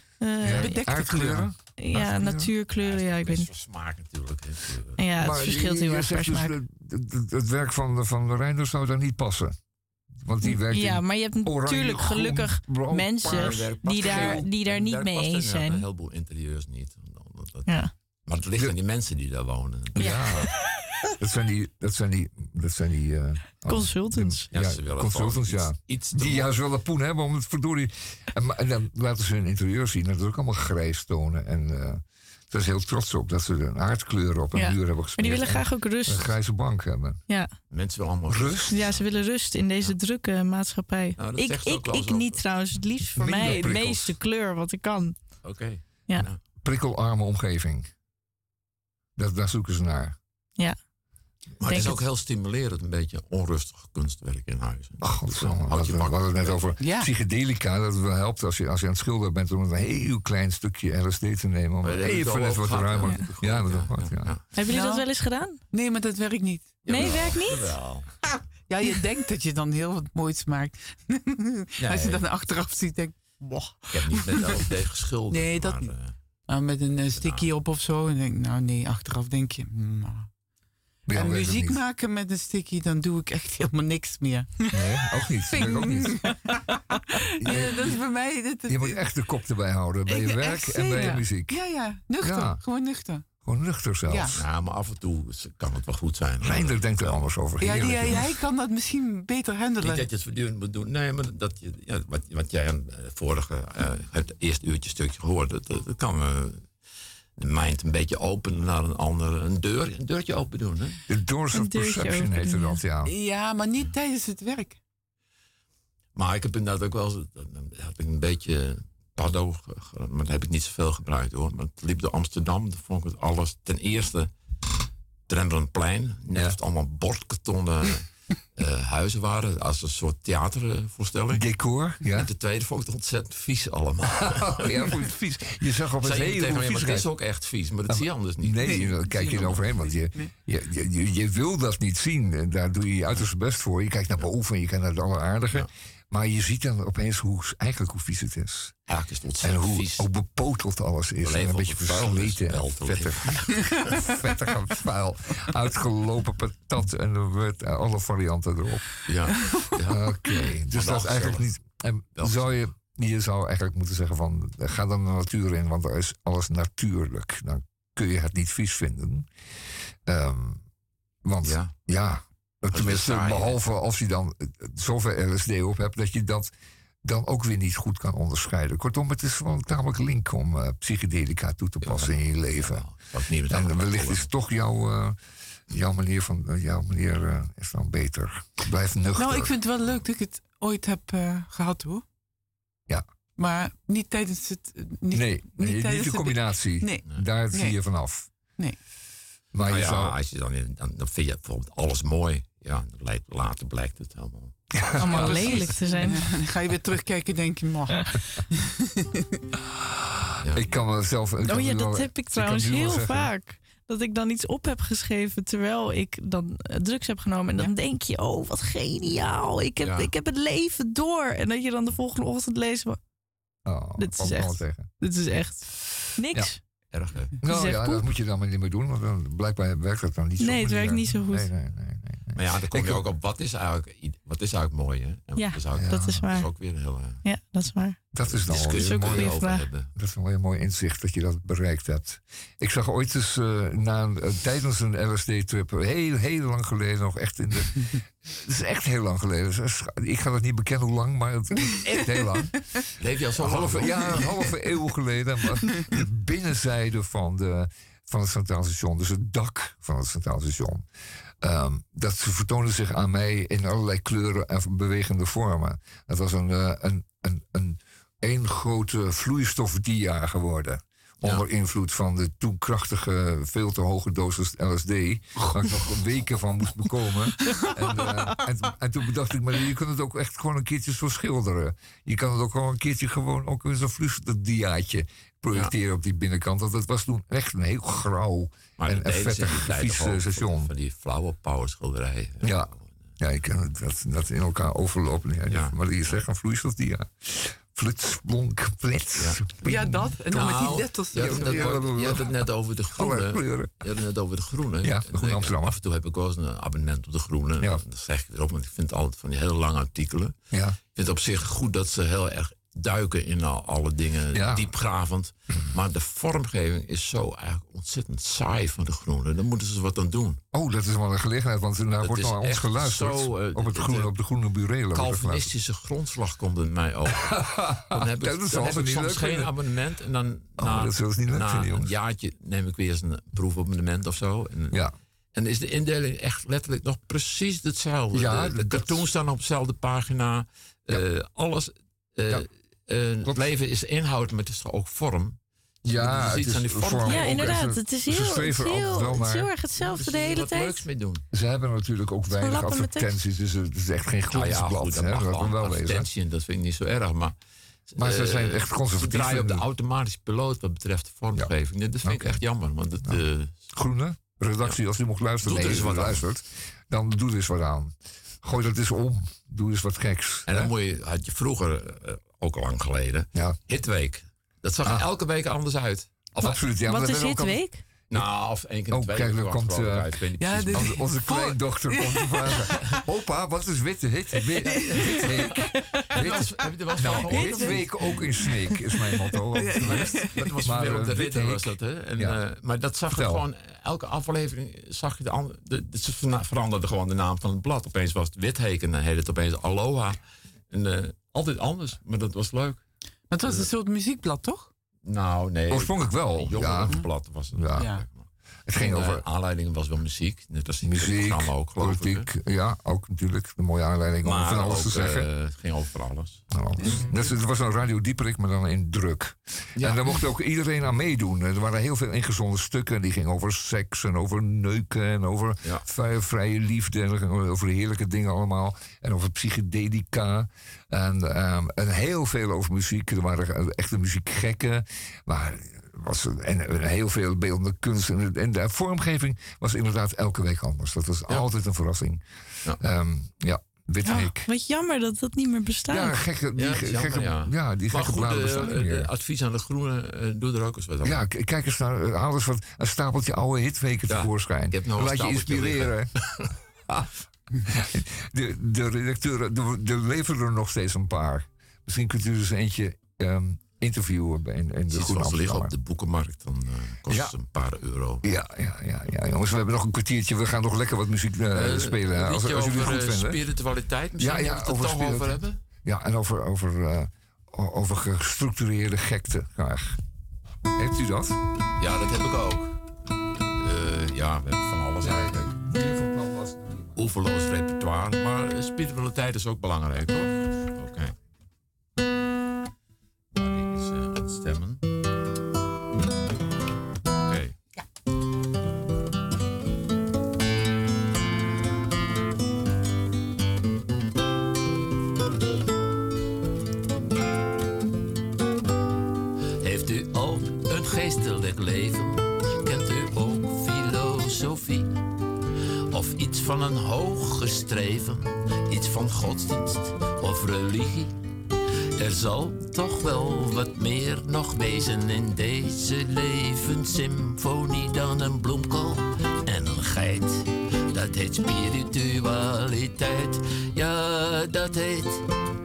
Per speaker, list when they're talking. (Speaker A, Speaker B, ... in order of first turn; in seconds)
Speaker A: 0.2-1.0, 1.8-3.5, 5.0-6.6, 10.4-15.9, 17.7-17.9, 20.0-20.5, 23.7-24.5, 34.5-36.3, 38.7-45.2, 51.6-52.0, 64.5-65.6, 66.9-67.8, 111.5-112.8, 205.1-206.3, 211.4-223.0, 224.0-226.6, 227.5-228.1, 230.4-231.5, 235.4-236.6, 237.2-238.0, 238.6-239.7, 347.1-350.9, 352.3-353.2, 376.4-377.8, 387.2-387.7, 444.1-446.2
Speaker B: 0.4-2.5, 5.2-9.6, 10.1-14.4, 20.0-20.6, 21.1-37.2, 38.3-38.9, 43.2-44.1, 46.6-47.9, 49.2-50.2, 55.0-64.3, 81.1-81.8, 84.7-86.4, 87.4-88.0, 88.7-91.7, 92.2-92.6, 93.4-94.4, 96.4-98.3, 111.1-113.1, 131.3-132.3, 134.3-137.1, 137.9-148.8, 149.4-169.3, 170.1-170.6, 171.2-176.5, 177.0-182.9, 183.5-185.2, 185.7-189.6, 195.1-198.3, 199.5-200.1, 204.8-205.7, 210.5-213.3, 223.7-224.9, 227.4-233.1, 235.7-236.3, 238.1-239.4, 240.0-252.8, 253.4-260.9, 261.4-290.7, 292.4-303.8, 304.8-305.8, 310.5-310.8, 314.3-314.7, 320.5-325.5, 327.1-329.5, 330.6-331.9, 338.1-339.0, 345.9-349.5, 351.3-356.1, 358.0-359.6, 361.4-362.4, 363.7-370.7, 376.4-378.3, 378.9-380.1, 380.7-392.4, 393.1-393.4, 405.7-408.0, 408.7-409.2, 410.8-415.3, 416.5-442.2, 442.8-444.5, 445.9-449.1, 451.0-456.1, 456.9-457.1, 457.7-465.7, 467.1-467.3, 468.2-473.4, 474.2-480.0, 480.8-481.4, 485.0-487.0
Speaker C: 0.5-1.5, 43.2-43.8, 56.8-57.1, 64.7-67.3, 68.3-74.8, 75.3-76.0, 76.5-80.3, 81.1-89.0, 90.1-93.3, 94.1-94.3, 97.6-100.0, 113.0-114.8, 138.6-140.3, 189.2-192.0, 193.4-197.8, 198.4-198.8, 205.0-209.1, 277.8-278.2, 299.6-302.1, 380.4-382.8, 384.4-390.5, 403.3-404.7, 407.8-408.1, 416.8-417.3
Speaker D: 2.7-5.1, 13.3-20.2, 24.5-26.5, 37.7-39.2, 41.2-42.5, 45.4-46.4, 51.6-56.8, 61.8-64.4, 66.8-68.2, 71.8-72.3, 73.9-76.2, 77.1-77.5, 94.3-97.2, 97.8-98.3, 99.8-106.8, 107.4-111.0, 116.2-124.3, 125.3-131.5, 132.1-134.9, 136.0-139.6, 148.9-150.1, 151.2-154.0, 159.1-161.5, 162.2-162.5, 171.4-171.7, 172.7-173.6, 181.8-184.3, 199.7-204.6, 210.4-210.7, 219.8-220.1, 226.9-227.3, 232.3-237.2, 238.2-239.9, 253.0-254.6, 288.8-293.1, 295.5-296.2, 299.2-299.4, 300.4-310.4, 310.9-320.4, 322.0-324.1, 324.9-334.8, 335.3-347.6, 349.8-351.2, 354.3-357.4, 357.9-363.6, 365.4-366.3, 370.5-376.1, 378.1-381.1, 386.1-388.1, 389.8-400.2, 400.7-402.8, 405.0-412.3, 414.2-417.1, 419.8-420.3, 446.6-451.2, 454.1-456.5, 464.9-468.2, 471.5-475.6, 481.8-482.8, 483.6-485.5, 487.0-491.1, 493.4-494.8, 497.2-497.6
Speaker E: 509.6-514.9, 515.9-521.1, 522.0-535.2